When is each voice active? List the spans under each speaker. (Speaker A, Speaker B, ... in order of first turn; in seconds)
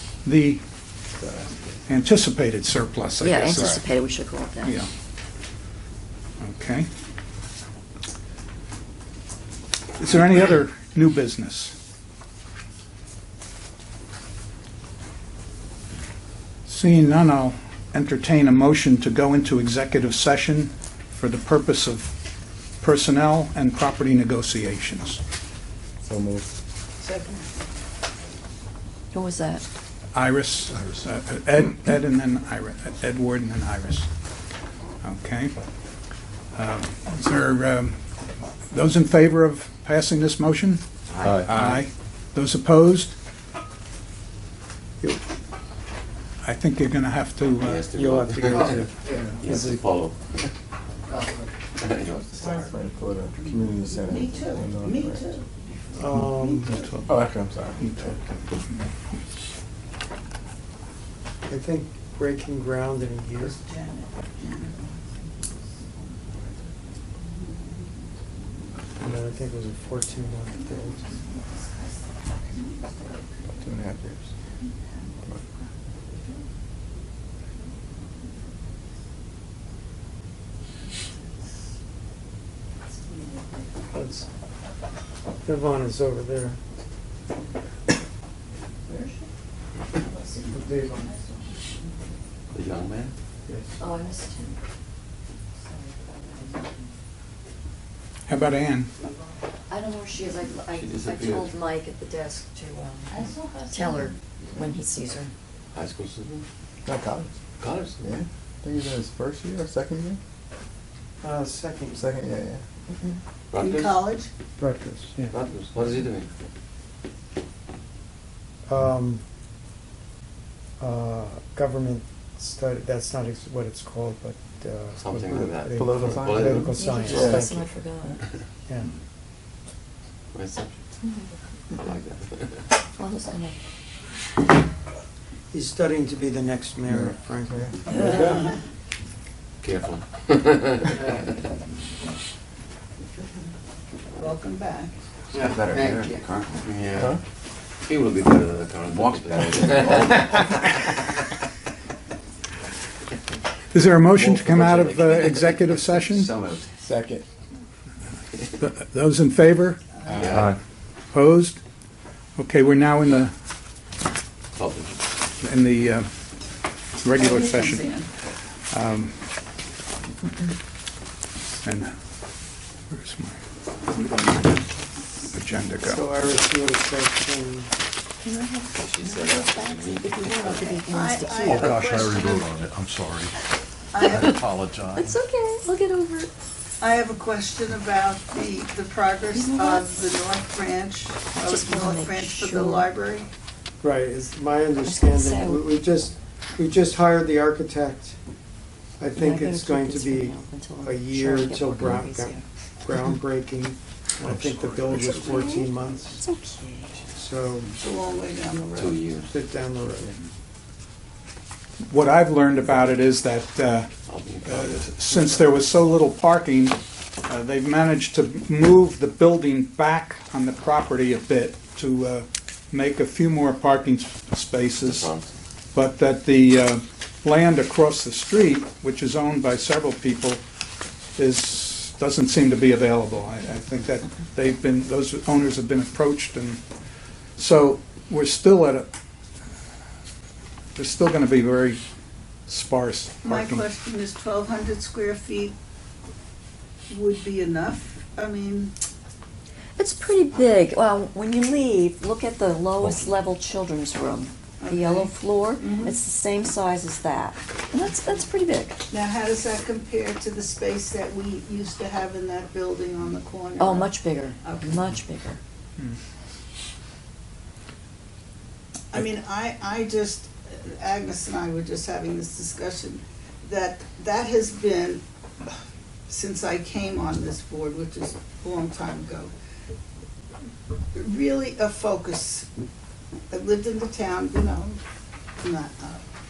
Speaker A: 0.2-0.6, 1.9-3.8, 4.6-4.9, 6.4-6.9, 10.0-11.7, 16.6-22.1, 22.8-25.2, 30.1-34.1, 35.0-35.5, 36.5-38.0, 38.7-43.1, 46.4-47.8, 56.1-58.9, 98.3-98.9, 153.7-156.3, 158.6-159.8, 161.1-161.6, 162.4-163.3, 165.4-166.1, 166.9-167.9, 168.7-169.2, 171.6-171.9, 172.9-173.4, 175.3-176.1, 211.9-213.9, 214.4-225.1, 225.7-230.4, 231.2-236.6, 237.4-238.9, 240.7-241.8, 242.5-243.7
Speaker B: 1.2-1.5, 3.5-3.8, 26.0-26.5, 41.2-41.8, 52.3-55.3, 57.0-58.0, 73.6-74.3, 106.8-107.3, 108.0-110.2, 111.9-112.6, 125.7-127.5, 136.9-137.7, 145.4-146.3, 156.8-157.2, 160.2-160.5
Speaker C: 3.2-4.8, 29.1-29.6, 83.3-83.6, 88.9-89.3, 89.9-91.7, 93.8-94.6, 95.6-96.9, 99.7-105.3, 126.8-128.2, 133.0-133.5, 178.2-181.5, 184.0-184.3, 184.9-186.3, 189.3-190.1, 191.3-192.9, 194.8-195.6, 199.2-202.4, 204.9-206.9, 249.8-258.8, 263.6-265.4
Speaker D: 27.0-27.5, 53.9-56.9, 63.4-65.2, 67.2-67.9, 72.5-72.9, 103.1-104.1, 113.6-114.3, 144.2-144.9, 159.9-160.4, 167.1-168.2, 180.4-182.5, 183.9-184.4, 186.8-193.3, 207.8-209.0, 243.2-245.5, 246.9-248.7, 254.6-256.0, 258.9-264.9, 268.9-275.0, 276.1-279.3, 280.9-282.5, 283.3-284.8, 285.4-286.0
Speaker E: 47.6-50.5, 51.8-52.7, 92.5-93.1, 100.6-101.5, 105.7-106.5, 107.6-108.2, 113.5-114.1, 115.2-116.3, 124.9-126.8, 130.3-130.8, 131.7-132.7, 139.6-141.3, 145.4-147.2, 147.8-150.7, 154.2-156.6, 160.1-160.5, 164.5-165.0, 178.7-180.8, 208.7-209.3, 214.1-215.4, 224.8-225.3
Speaker F: 47.9-49.8, 56.0-56.7, 61.5-63.6, 69.0-71.2, 83.9-84.3, 85.4-86.6, 90.5-91.2, 111.2-112.1, 114.6-115.3, 118.7-119.2, 120.8-127.7, 135.5-137.7, 175.8-177.7, 193.8-198.1, 199.0-206.2, 207.1-207.7, 209.2-210.1
Speaker G: 181.5-183.3, 184.4-185.1